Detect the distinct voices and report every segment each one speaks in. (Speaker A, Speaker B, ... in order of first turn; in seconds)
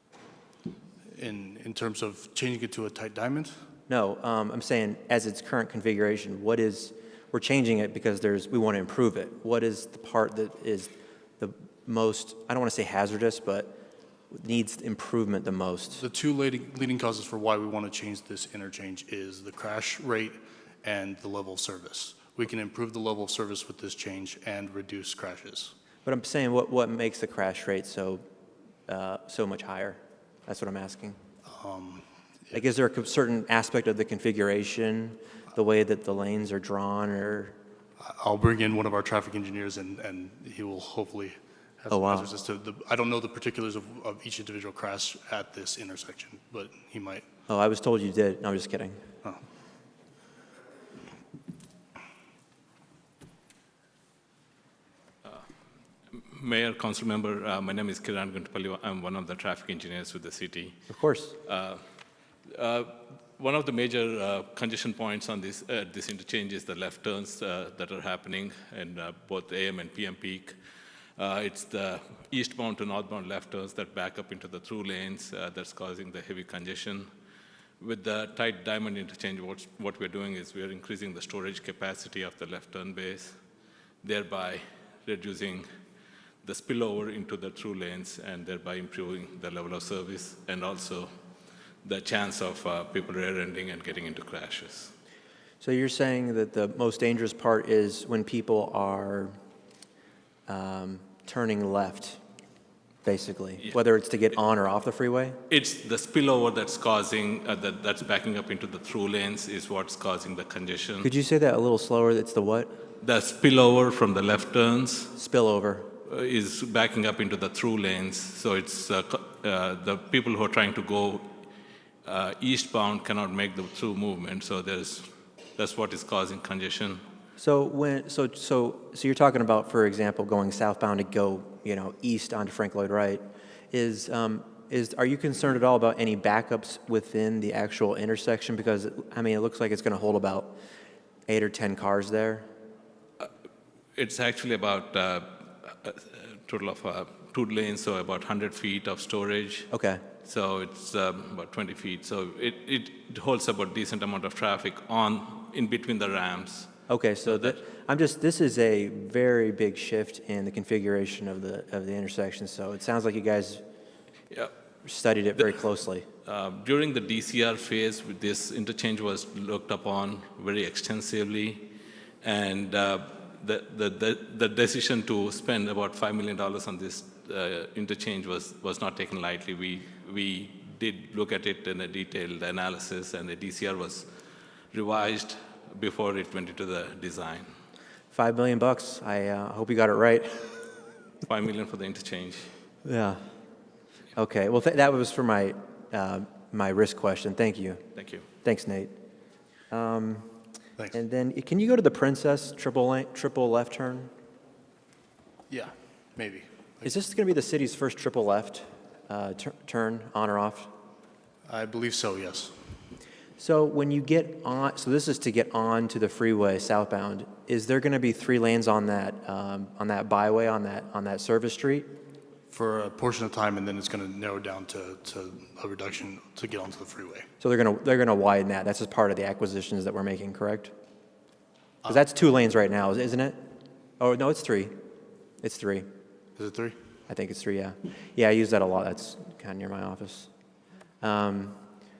Speaker A: 1.1-3.5, 16.0-25.7, 31.5-32.1, 38.0-47.3, 205.5-206.9, 211.5-212.5, 222.5-227.2, 236.4-236.8
Speaker B: 3.9-13.8, 14.3-16.0, 26.1-28.2, 28.9-31.2, 32.5-37.6, 41.9-42.3, 47.5-49.0, 60.9-61.4, 95.6-99.3, 100.5-102.2, 103.0-105.4, 111.0-112.7, 115.2-115.9, 127.4-140.6, 141.3-142.5, 149.7-150.0, 156.9-163.6, 164.8-166.1, 188.1-190.6, 192.8-193.2, 194.2-197.8, 198.4-198.9, 199.7-200.3, 200.9-204.1, 206.8-210.7, 213.4-221.9, 227.4-230.7, 231.9-233.4, 234.0-234.7, 235.4-235.9, 237.1-240.3, 241.0-241.6
Speaker C: 56.1-60.8, 61.4-61.8, 62.5-70.5, 71.2-77.1, 77.8-83.3, 84.0-85.7, 86.4-91.1, 91.8-94.9, 105.5-111.1, 113.0-115.1, 116.1-121.3, 122.0-127.0, 144.0-149.7, 150.2-156.7, 157.3-157.6, 166.2-184.1, 184.7-187.5, 191.2-192.5, 198.0-198.2